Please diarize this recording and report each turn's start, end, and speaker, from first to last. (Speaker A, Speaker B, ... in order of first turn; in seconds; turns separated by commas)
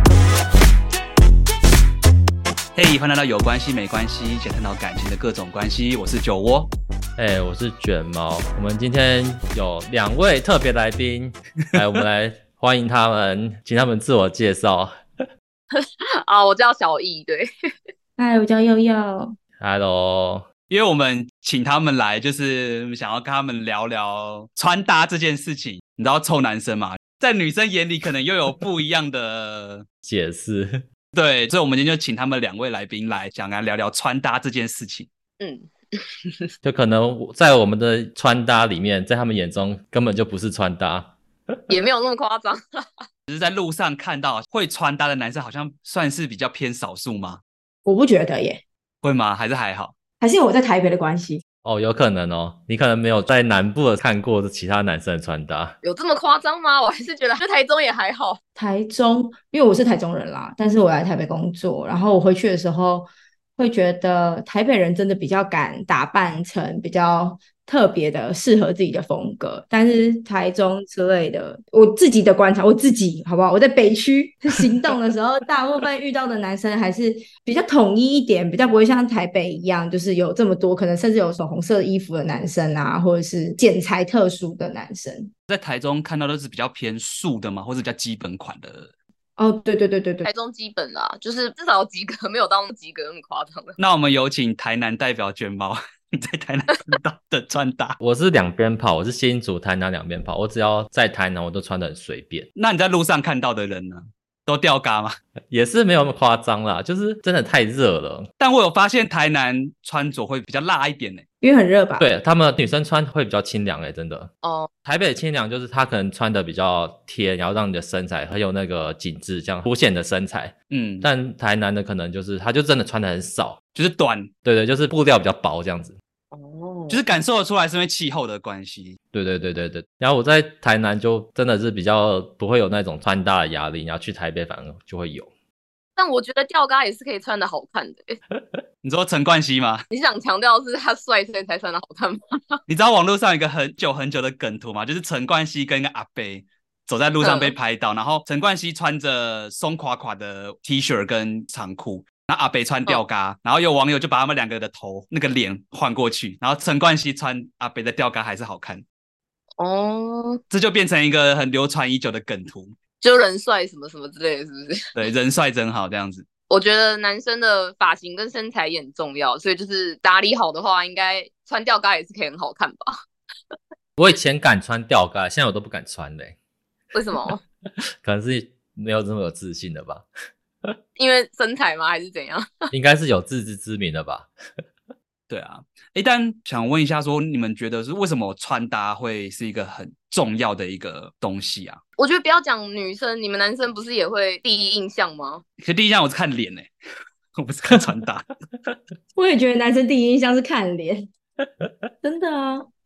Speaker A: 2.7-6.7, Speaker B: 7.2-15.0, Speaker C: 15.7-17.5, Speaker D: 18.2-19.3, Speaker B: 19.6-20.4, Speaker A: 20.7-29.8, Speaker B: 30.0-30.8, Speaker A: 31.1-35.1, Speaker C: 35.4-36.5, Speaker B: 36.6-41.6, Speaker C: 41.7-42.9, Speaker A: 43.3-47.4, Speaker D: 47.9-48.6, Speaker A: 49.0-49.9, Speaker D: 50.2-51.4, Speaker B: 51.6-55.7, Speaker C: 55.8-58.4, Speaker D: 58.6-85.3, Speaker A: 85.5-88.9, Speaker D: 89.4-90.3, Speaker C: 90.2-93.8, Speaker A: 93.8-98.0, Speaker B: 98.0-102.5, Speaker A: 102.5-105.2, Speaker B: 105.5-108.3, Speaker A: 108.4-111.2, Speaker D: 111.4-112.0, Speaker B: 112.0-114.3, Speaker C: 114.4-114.7, Speaker B: 114.8-123.6, Speaker A: 120.7-121.1, Speaker A: 123.7-124.3, Speaker B: 124.4-126.0, Speaker C: 126.3-127.1, Speaker A: 126.9-129.0, Speaker B: 129.1-135.3, Speaker C: 136.0-138.2, Speaker A: 138.8-139.8, Speaker C: 139.9-142.6, Speaker A: 142.7-158.8, Speaker C: 147.2-147.5, Speaker C: 159.6-160.4, Speaker A: 160.5-162.7, Speaker C: 163.0-164.9, Speaker A: 164.9-166.2, Speaker C: 166.5-173.0, Speaker B: 174.0-176.3, Speaker C: 176.9-177.4, Speaker B: 178.0-180.1, Speaker C: 180.9-182.7, Speaker B: 182.7-184.3, Speaker A: 185.3-191.8, Speaker C: 192.0-195.4, Speaker A: 195.6-196.7, Speaker A: 197.3-198.2, Speaker D: 199.1-201.1, Speaker D: 202.0-202.7